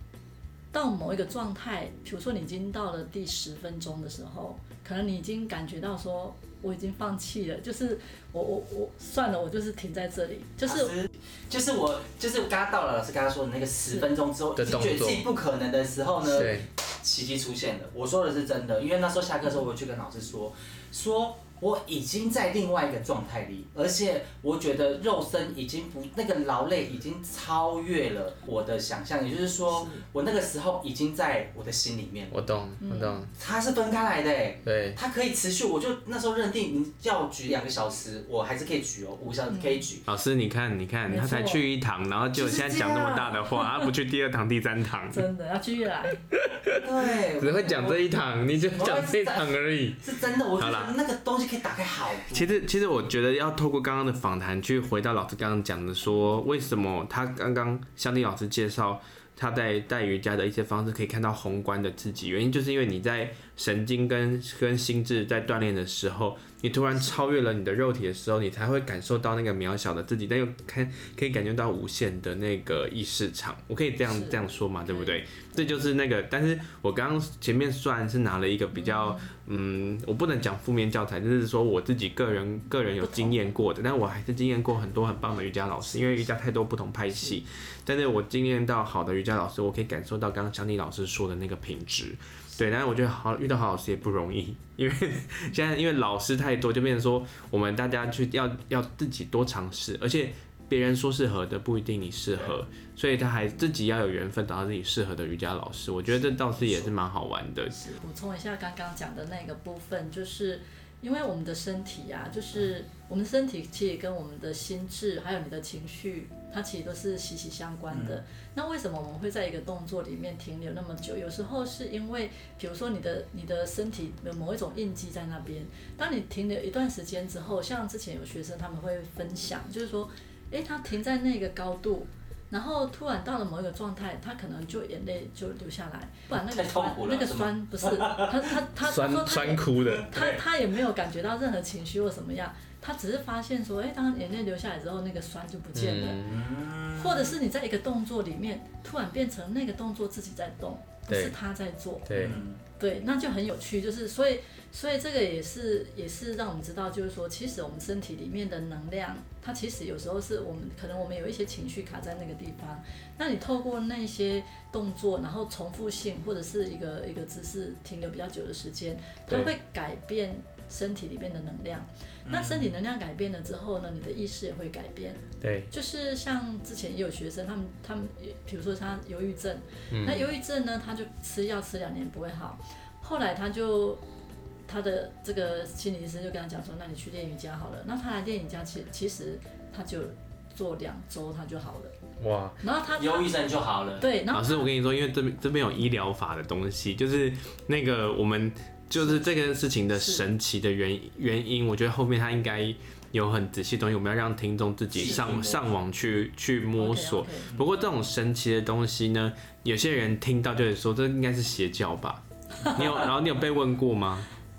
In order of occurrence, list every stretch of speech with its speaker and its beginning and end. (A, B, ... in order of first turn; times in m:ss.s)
0:00.7-0:10.9 A
0:10.7-0:32.4 B
0:14.6-0:15.3 C
0:16.3-0:16.7 C
0:29.7-0:30.0 A
0:32.3-0:33.3 C
0:32.8-0:33.3 A
0:33.3-0:40.1 B
0:34.6-0:35.0 C
0:39.5-0:39.8 A
0:40.1-0:45.2 C
0:41.1-0:41.6 A
0:42.4-0:43.4 B
0:43.6-0:43.9 A
0:45.1-0:46.2 A
0:46.3-0:46.8 C
0:46.7-0:48.0 B
0:47.4-0:50.1 C
0:48.7-0:52.5 B
0:50.6-0:50.9 C
0:52.3-1:47.8 C
1:14.1-1:15.7 A
1:18.7-1:19.3 A
1:23.0-1:23.4 A
1:46.6-1:46.8 B
1:47.7-2:26.2 A
1:57.9-1:58.2 B
2:16.3-2:18.5 B
2:18.8-2:20.4 C
2:25.7-2:26.5 C
2:26.3-2:27.4 B
2:27.0-3:04.0 A
2:31.1-2:31.3 C
2:32.1-2:32.4 C
2:32.1-2:32.6 B
2:49.3-2:49.5 C
2:52.3-2:52.7 B
2:55.4-2:55.7 C
2:59.9-3:00.3 C
3:04.7-3:11.9 A
3:12.2-3:12.6 C
3:12.6-3:13.4 A
3:12.9-3:14.1 B
3:14.0-3:14.7 A
3:14.3-3:34.3 C
3:19.0-3:20.2 A
3:25.0-3:25.6 B
3:25.0-3:25.6 A
3:26.8-3:27.5 A